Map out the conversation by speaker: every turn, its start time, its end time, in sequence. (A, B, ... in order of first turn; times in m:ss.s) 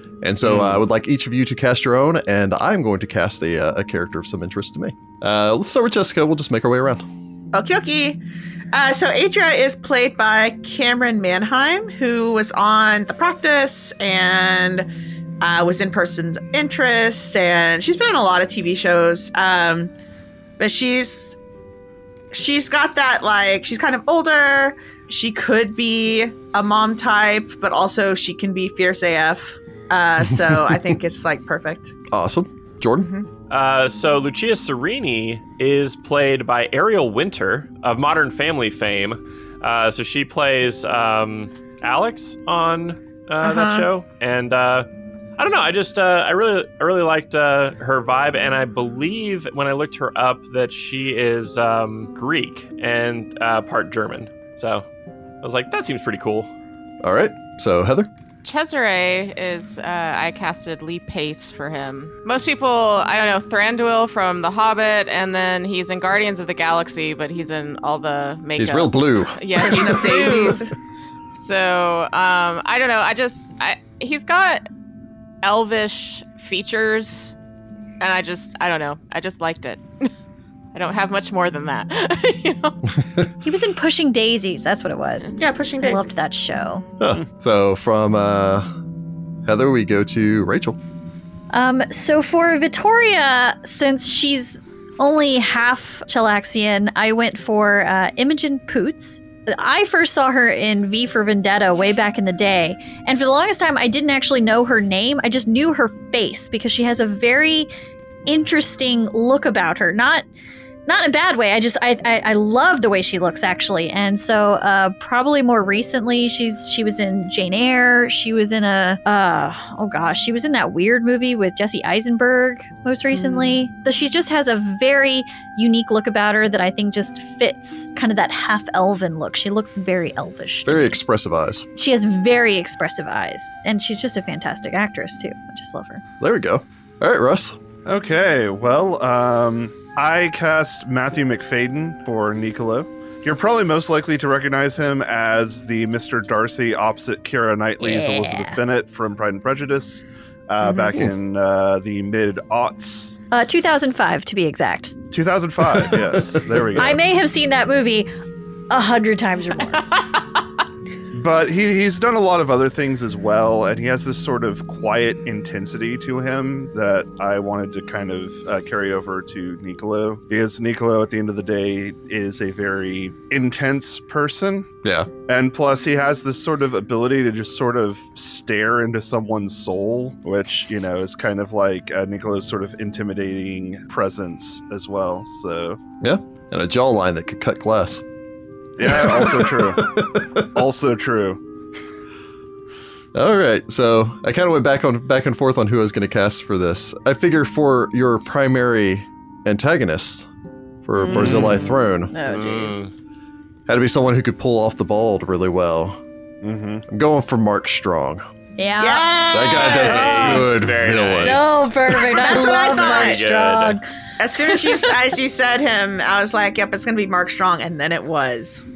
0:00.2-0:07.0 A
0:00.4-0:00.8 B
0:07.5-0:08.2 C
0:08.7-0:14.9 C
0:15.4-0:19.9 C
0:20.6-0:21.4 C
0:22.3-0:31.9 C
0:30.3-0:30.9 A
0:32.1-0:33.1 A
0:33.0-0:33.3 C
0:33.5-0:54.8 D
0:43.4-0:43.8 C
0:55.4-0:56.5 D
0:57.0-0:58.1 A
0:58.4-1:10.6 E
1:08.6-1:09.4 A
1:09.5-1:10.7 C
1:11.3-1:14.7 E
1:15.4-1:17.3 E
1:18.0-1:20.1 E
1:20.7-1:22.8 E
1:23.4-1:26.8 F
1:25.4-1:26.2 C
1:27.0-1:28.7 A
1:29.4-1:30.8 A
1:31.5-1:47.7 F
1:48.3-1:50.2 F
1:50.9-2:10.9 F
2:10.6-2:11.7 A
2:11.7-2:16.0 F
2:16.2-2:17.6 A
2:17.8-2:33.2 B
2:27.8-2:28.6 F
2:33.3-2:35.0 F
2:35.1-2:37.0 B
2:36.7-2:38.1 F
2:38.7-2:40.0 F
2:41.1-2:54.7 B
2:54.8-2:55.1 A
2:55.3-3:05.8 B
3:06.0-3:08.0 A
3:08.8-3:11.4 B
3:08.8-3:10.6 A
3:13.1-3:20.3 A
3:20.8-3:22.1 A
3:21.1-3:21.4 D
3:22.1-3:22.8 F
3:22.2-3:22.9 D
3:23.7-3:26.0 A
3:26.4-3:26.8 B
3:26.9-3:28.2 A
3:28.6-3:30.5 F
3:28.8-3:30.5 C
3:29.3-3:31.6 A
3:29.6-3:31.7 D
3:31.2-3:33.8 F
3:32.1-3:33.2 C
3:32.4-3:33.8 D
3:34.2-3:38.6 C
3:34.5-3:35.0 F